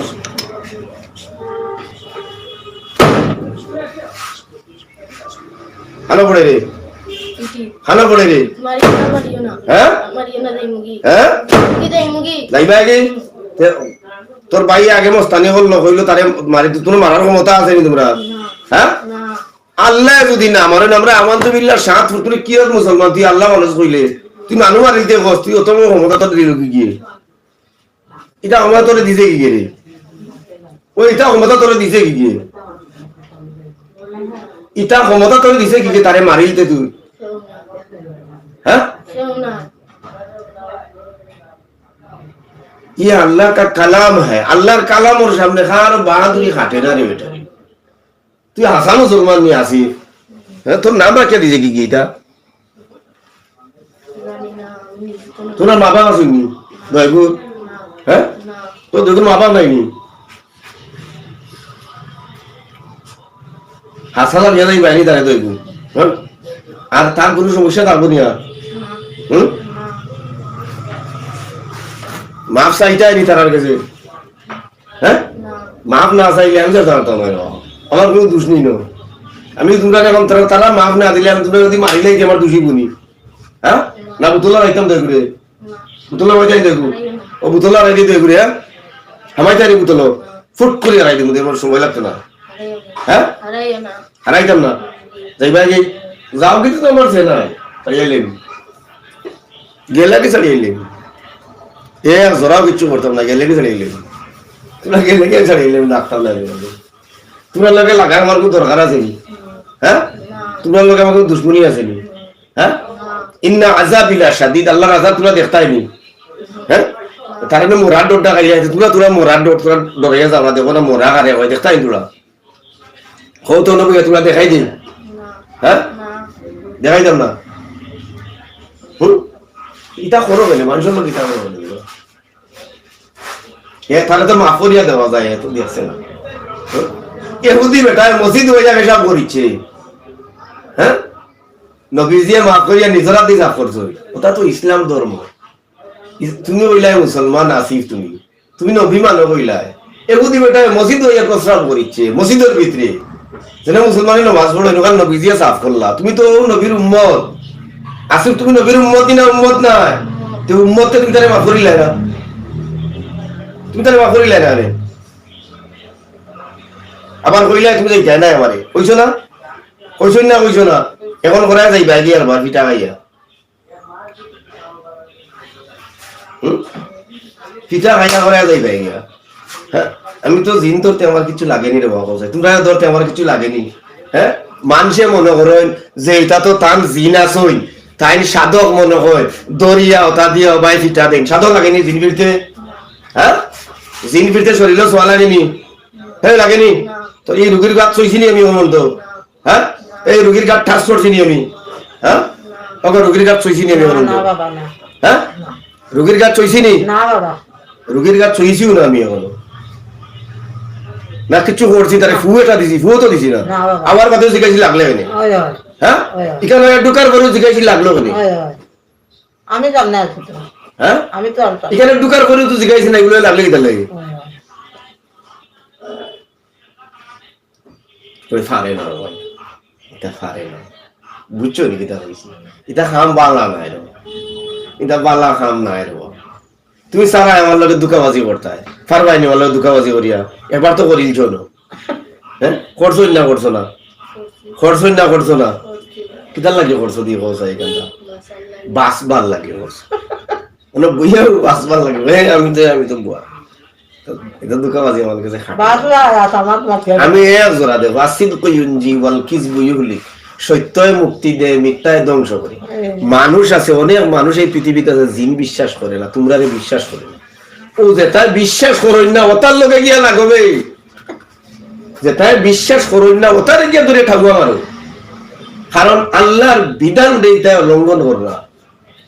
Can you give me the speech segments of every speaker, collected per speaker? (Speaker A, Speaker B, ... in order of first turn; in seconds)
Speaker A: 6.1-6.7, 7.8-8.5, 9.7-10.0, 11.0-11.4, 12.5-13.9, 14.5-18.2, 18.7-19.0, 19.8-27.0, 28.4-29.7, 31.0-32.5, 34.8-36.9, 38.6-39.0, 43.0-47.4, 48.5-49.9, 50.7-52.1, 55.6-57.4, 58.1-58.3, 58.9-59.9, 64.1-66.2, 66.9-68.4, 69.3-69.6, 72.5-73.8, 75.0-75.3, 75.9-78.8, 79.6-82.9, 83.6-85.3, 86.1-88.5, 89.4-92.2, 93.1-93.3, 94.2-94.8, 95.4-98.4, 99.9-100.9, 102.0-104.1, 104.8-106.8, 107.5-109.2, 109.8-110.1, 110.6-112.0, 113.4-115.9, 117.4-122.1, 123.5-124.7, 125.6-125.9, 126.8-127.3, 129.0-129.2, 130.0-131.8, 133.9-136.0, 137.4-139.6, 141.9-145.3, 146.2-153.0, 153.7-157.3, 158.1-162.0, 163.7-164.7, 167.2-169.1, 170.0-173.0, 177.7-179.0, 179.7-192.4, 193.2-193.4, 194.0-195.6, 196.2-198.9, 199.4-201.5, 202.0-202.3, 202.8-204.3, 205.0-205.3, 205.9-206.9, 207.9-209.3, 211.3-215.1, 215.8-218.2, 220.8-221.1, 221.7-223.9, 228.3-229.2, 229.9-230.7, 231.3-233.9, 234.8-236.2, 236.9-241.5, 242.4-243.7, 244.6-245.6, 246.3-247.9, 248.7-249.9, 250.7-253.2, 254.1-256.0, 257.0-267.2, 267.8-270.7, 272.0-274.6, 275.7-278.4
Speaker B: 7.4-7.8, 8.5-12.5, 18.1-19.4, 34.0-34.5, 37.2-37.9, 39.0-39.7, 54.1-56.0, 56.7-58.8, 68.7-70.0, 75.3-75.8, 84.0-84.4, 85.6-85.9, 86.6-87.4, 89.9-90.4, 92.5-94.0, 94.8-96.1, 109.3-110.7, 112.0-112.3, 112.8-113.3, 116.5-116.7, 117.3-117.7, 125.1-126.3, 160.0-160.4, 192.6-192.9, 196.0-197.1, 198.9-199.2, 199.8-200.3, 202.4-202.8, 244.1-244.9, 245.6-246.3, 248.0-248.8
Speaker C: 203.7-204.7, 206.8-207.4, 213.4-214.0, 215.1-215.6, 216.1-216.4, 218.1-218.6, 219.5-220.5, 221.1-221.8, 223.9-224.3, 255.6-257.2, 262.6-263.1